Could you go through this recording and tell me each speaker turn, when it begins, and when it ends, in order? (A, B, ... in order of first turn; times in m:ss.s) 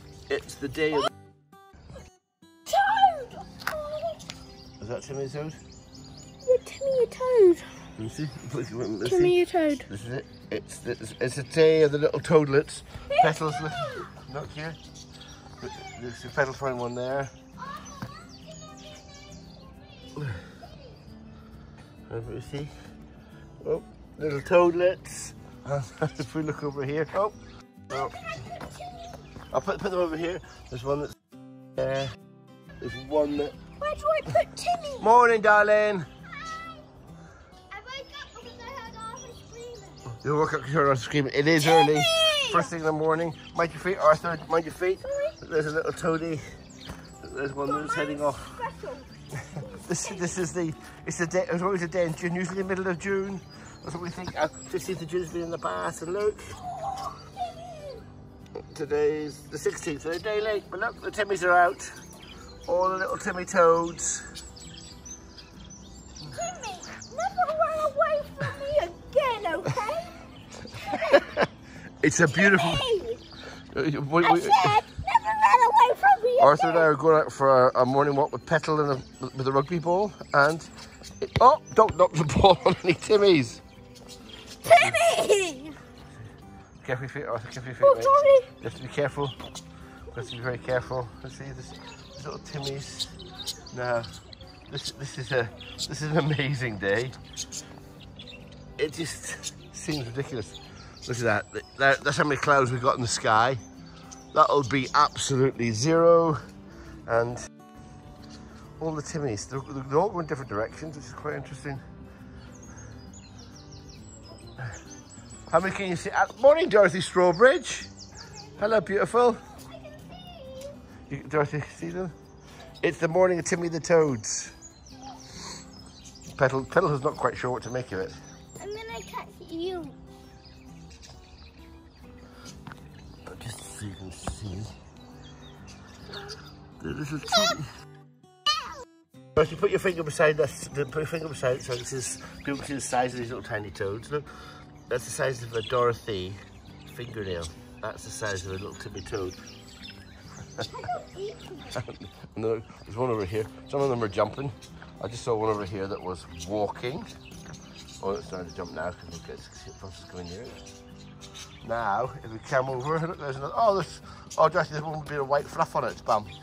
0:00.3-0:01.1 A
0:02.7-0:04.2 B
0:04.8-0:05.6 A
0:06.4-0:07.7 B
0:08.0-0:14.8 A
0:09.0-0:09.9 B
0:13.1-0:14.0 B
0:15.6-0:17.3 A
0:17.7-0:20.1 B
0:20.2-0:20.5 A
0:22.1-0:22.7 A
0:23.6-0:27.3 A
0:27.9-0:28.2 A
0:27.9-0:29.2 B
0:29.5-0:31.2 A
0:31.8-0:32.1 A
0:32.8-0:33.6 A
0:33.8-0:35.1 B
0:35.0-0:36.1 A
0:36.3-0:36.8 B
0:37.7-0:40.1 B
0:40.1-0:46.4 A
0:41.6-0:42.7 B
0:45.0-0:45.4 B
0:47.2-0:48.6 A
0:47.6-0:50.3 B
0:49.8-0:56.6 A
0:56.8-0:58.0 B
0:58.7-1:01.9 A
1:02.6-1:04.2 A
1:06.3-1:10.2 B
1:10.8-1:11.5 A
1:10.8-1:11.2 B
1:12.0-1:12.8 A
1:12.3-1:13.2 B
1:13.7-1:14.8 A
1:14.2-1:16.9 B
1:16.4-1:23.6 A
1:24.6-1:25.8 B
1:24.6-1:25.0 A
1:26.8-1:29.4 A
1:27.8-1:28.5 B
1:30.1-1:33.1 A
1:33.7-1:34.1 A
1:34.7-1:37.2 A
1:38.8-1:43.6 A
1:44.3-1:46.4 A
1:47.1-1:47.5 A
1:48.8-1:51.8 A
1:55.5-1:57.9 A
1:58.6-1:59.4 A
1:59.5-2:00.8 B
2:01.1-2:02.1 A
2:02.8-2:04.5 A
2:06.3-2:08.2 A
2:08.6-2:09.9 B
2:13.2-2:14.7 A
2:16.8-2:17.7 A
2:19.4-2:29.4 A
2:30.6-2:31.8 B
2:31.7-2:37.1 A
2:38.0-2:40.6 A
2:41.6-2:46.3 A